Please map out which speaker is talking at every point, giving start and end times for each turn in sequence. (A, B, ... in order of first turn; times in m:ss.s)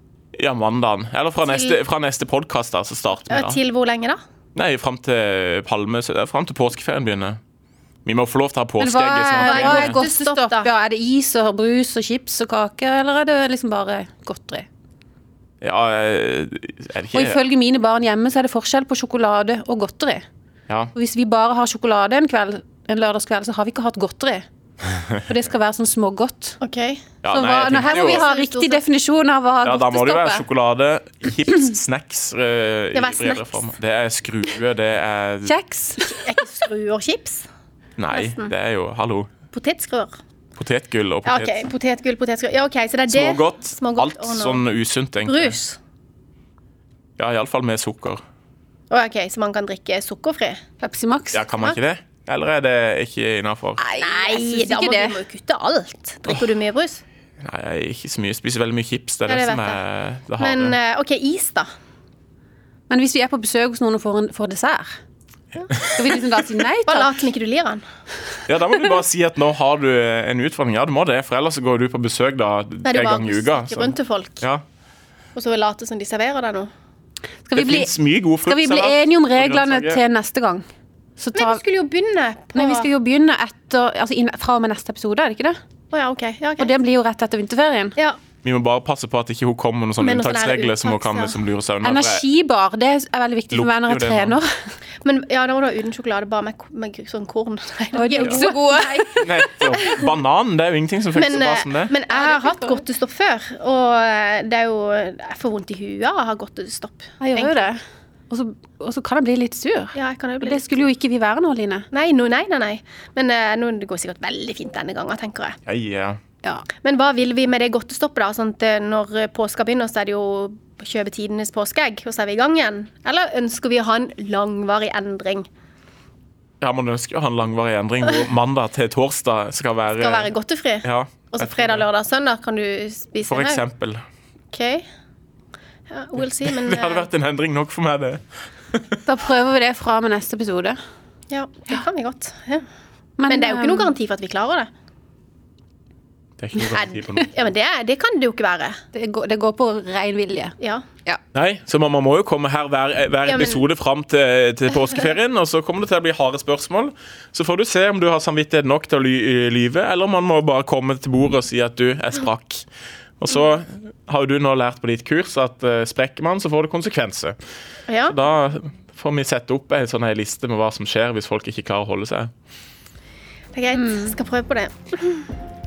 0:00.3-0:03.6 A
0:01.4-0:01.8 B
0:03.3-0:04.2 B
0:04.5-0:07.4 A
0:08.0-0:10.0 A
0:08.8-0:14.6 C
0:09.4-0:10.7 B
0:15.6-0:17.4 A
0:17.1-0:20.2 C
0:20.9-0:24.4 C
0:25.2-0:26.6 C
0:26.6-0:27.0 B
0:27.2-0:28.2 A
0:27.3-0:30.4 C
0:27.7-0:28.8 B
0:29.6-0:35.5 A
0:32.9-0:33.6 B
0:35.4-0:36.2 C
0:36.2-0:37.4 B
0:38.0-0:39.3 A
0:38.1-0:38.5 B
0:39.5-0:40.1 B
0:40.6-0:41.5 A
0:41.2-0:44.6 B
0:43.1-0:45.6 A
0:45.2-0:45.8 B
0:47.2-0:48.2 A
0:48.9-0:50.6 B
0:50.8-0:51.5 C
0:51.3-0:53.8 A
0:53.8-0:57.0 B
0:54.0-0:55.2 C
0:57.4-1:00.8 A
0:59.3-0:59.8 B
1:00.4-1:01.7 B
1:02.9-1:04.9 C
1:05.9-1:07.1 C
1:06.8-1:07.8 B
1:08.5-1:14.6 A
1:12.8-1:14.4 B
1:15.3-1:16.7 B
1:17.5-1:17.9 C
1:17.5-1:20.0 A
1:18.4-1:20.6 C
1:21.2-1:21.6 C
1:21.3-1:22.9 B
1:22.5-1:25.6 C
1:25.9-1:26.7 B
1:26.6-1:27.9 C
1:28.4-1:32.2 A
1:30.0-1:31.4 B
1:31.8-1:34.5 C
1:33.5-1:34.4 A
1:35.0-1:40.1 B
1:37.9-1:39.4 C
1:39.2-1:41.9 A
1:41.1-1:47.7 B
1:42.1-1:42.8 C
1:47.2-1:51.8 C
1:49.9-1:50.8 B
1:51.9-1:55.6 B
1:55.6-1:56.2 A
1:56.8-2:05.4 B
2:06.6-2:10.3 A
2:10.0-2:13.6 B
2:10.8-2:11.8 A
2:13.3-2:14.0 A
2:14.5-2:14.8 B
2:15.9-2:17.1 B
2:16.4-2:18.2 A
2:19.0-2:20.8 C
2:21.3-2:22.6 B
2:23.2-2:23.9 C
2:23.3-2:24.7 B
2:26.4-2:27.3 A
2:26.7-2:28.8 B
2:28.9-2:31.2 C
2:30.6-2:30.8 B
2:31.3-2:42.6 A
2:33.3-2:33.6 B
2:43.2-2:47.4 A
2:47.9-2:48.2 B
2:48.0-2:52.3 A
2:53.5-2:55.2 B
2:53.7-2:54.1 C